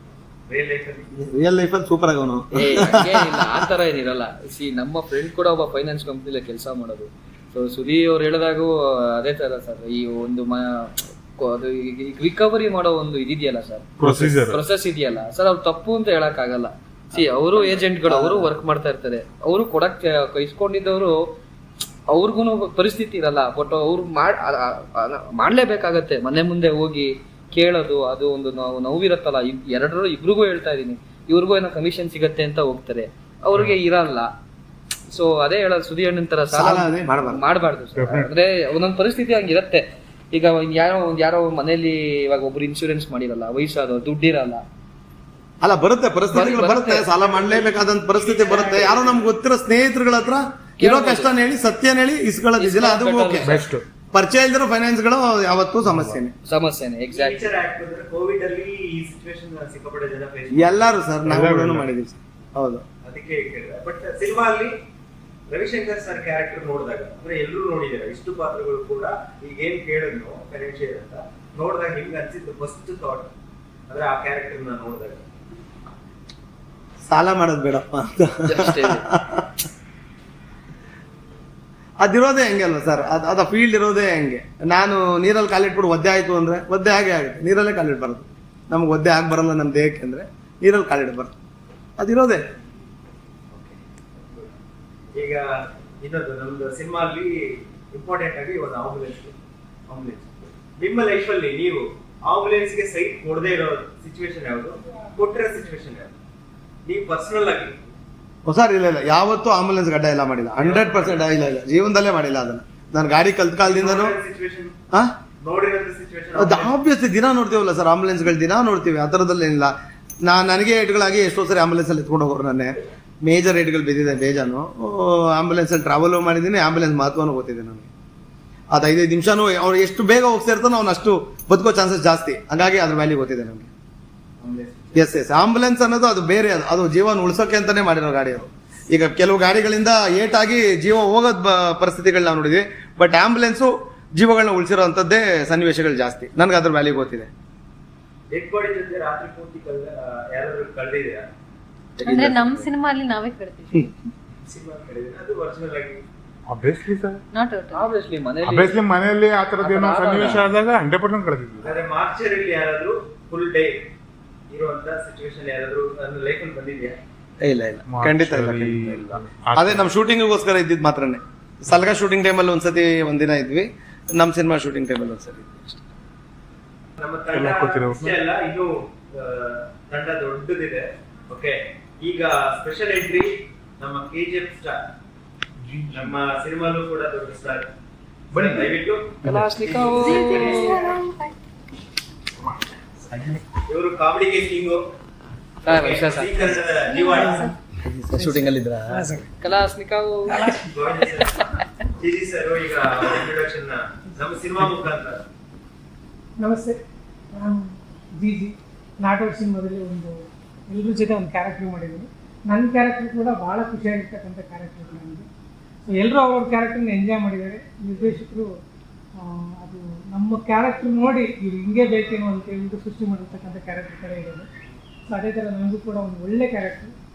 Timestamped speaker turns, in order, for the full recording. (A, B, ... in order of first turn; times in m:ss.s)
0:00.5-0:01.2 A
0:01.2-0:03.7 B
0:02.6-0:21.2 C
0:14.0-0:14.6 D
0:17.2-0:18.5 B
0:22.1-0:34.3 C
0:35.1-0:44.6 C
0:36.5-0:37.4 B
0:38.0-0:38.3 D
0:45.6-0:53.6 B
0:46.3-0:47.2 C
0:47.2-0:49.3 A
0:50.8-0:51.3 C
0:52.6-0:53.6 C
0:53.4-0:53.8 D
0:54.1-0:56.3 B
0:55.9-0:56.2 D
0:56.4-0:57.6 C
0:57.1-1:01.0 A
1:00.6-1:02.8 B
1:01.3-1:01.9 D
1:03.0-1:04.7 A
1:05.5-1:13.3 A
1:13.9-1:15.3 A
1:17.1-1:19.6 B
1:18.5-1:19.0 C
1:22.0-1:31.3 B
1:32.0-1:32.4 B
1:33.5-1:34.5 A
1:35.2-1:35.4 A
1:36.0-1:39.4 A
1:39.9-1:46.2 A
1:44.8-1:45.8 E
1:46.8-1:47.8 A
1:48.4-1:54.2 B
1:50.6-1:51.3 A
1:53.6-1:54.8 A
1:55.4-1:56.7 A
1:56.3-1:59.7 B
2:00.3-2:07.9 B
2:08.7-2:13.7 B
2:14.4-2:15.1 A
2:15.0-2:27.3 B
2:28.3-2:31.3 A
2:32.0-2:32.7 B
2:32.0-2:33.9 F
2:34.4-2:36.0 A
2:36.5-2:37.2 D
2:37.3-2:37.9 F
2:37.7-2:38.8 C
2:38.4-2:41.8 D
2:39.6-2:40.5 C
2:41.6-2:43.8 A
2:44.5-2:47.0 A
2:47.4-2:55.9 B
2:47.9-2:49.9 D
2:57.0-3:04.8 A
2:57.3-2:58.2 D
3:05.6-3:06.2 D
3:05.9-3:07.7 A
3:08.3-3:10.9 A
3:08.3-3:08.7 D
3:09.2-3:10.8 C
3:10.0-3:11.3 F
3:13.1-3:13.4 B
3:13.7-3:14.8 A
3:15.7-3:16.6 C
3:15.7-3:17.4 A
3:16.8-3:17.5 F
3:17.1-3:17.5 E
3:17.8-3:19.3 B
3:18.2-3:19.3 E
3:19.4-3:20.4 C
3:20.3-3:21.4 E
3:20.7-3:21.4 A
3:22.0-3:25.2 A
3:26.4-3:26.8 E
3:27.3-3:35.3 E
3:35.8-3:38.5 E
3:39.2-3:44.5 E
3:45.1-3:46.9 E